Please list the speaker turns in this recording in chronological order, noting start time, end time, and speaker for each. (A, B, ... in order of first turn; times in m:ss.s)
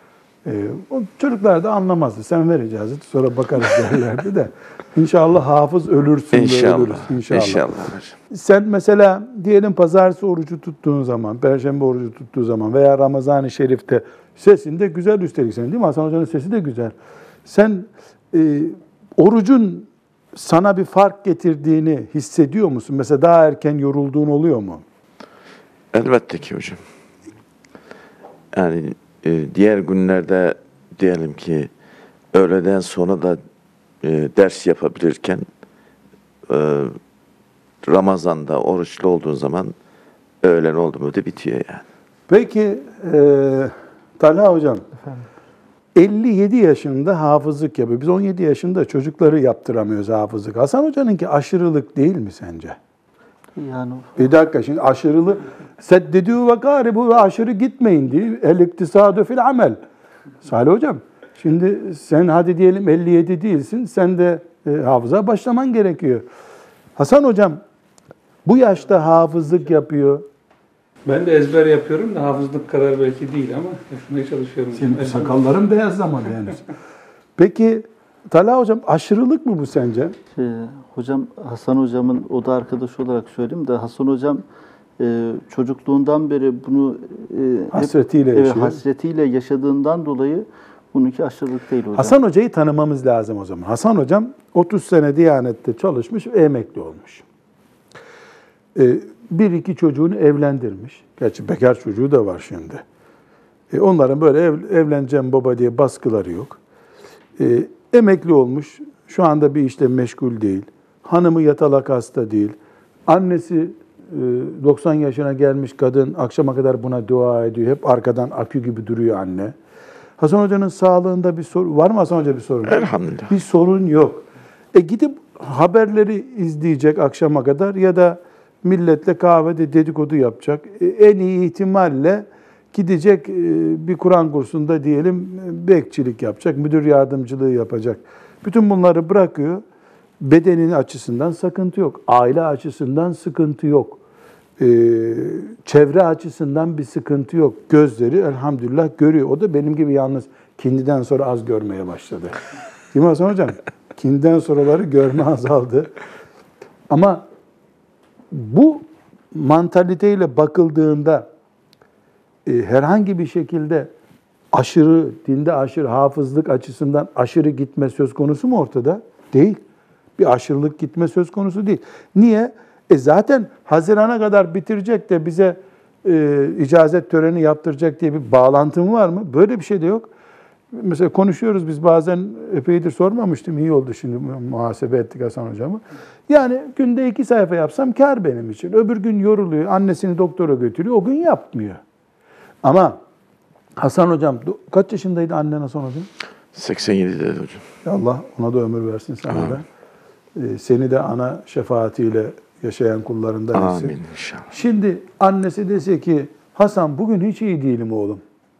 0:00.4-0:07.6 A
0:06.3-0:08.2 B
0:08.3-0:24.8 A
0:25.9-0:26.8 B
0:28.5-0:31.7 B
0:32.3-0:33.4 B
0:34.0-0:35.5 B
0:36.5-0:37.0 B
0:37.8-0:39.7 B
0:40.4-0:41.8 B
0:42.3-0:44.8 A
0:45.9-0:52.8 A
0:53.5-0:54.3 C
0:54.2-0:59.8 A
1:00.4-1:06.2 A
1:07.0-1:07.6 A
1:08.4-1:10.2 A
1:11.0-1:15.4 D
1:14.7-1:16.6 A
1:17.4-1:20.1 A
1:20.4-1:24.4 C
1:25.0-1:32.1 C
1:27.7-1:28.8 A
1:31.9-1:37.2 A
1:38.7-1:42.8 A
1:43.7-1:46.6 A
1:47.4-1:52.6 A
1:53.1-1:59.5 A
2:00.2-2:19.6 A
2:02.7-2:03.3 B
2:20.2-2:24.0 A
2:24.6-2:32.4 A
2:32.9-2:35.9 A
2:36.9-2:37.2 A
2:38.3-2:41.3 A
2:42.4-2:43.9 A
2:44.5-2:49.6 A
2:50.2-3:00.1 A
3:00.7-3:11.8 A
3:12.6-3:13.0 A
3:13.8-3:16.1 A
3:16.5-3:17.6 B
3:17.8-3:19.6 A
3:20.4-3:28.2 A
3:23.5-3:24.5 B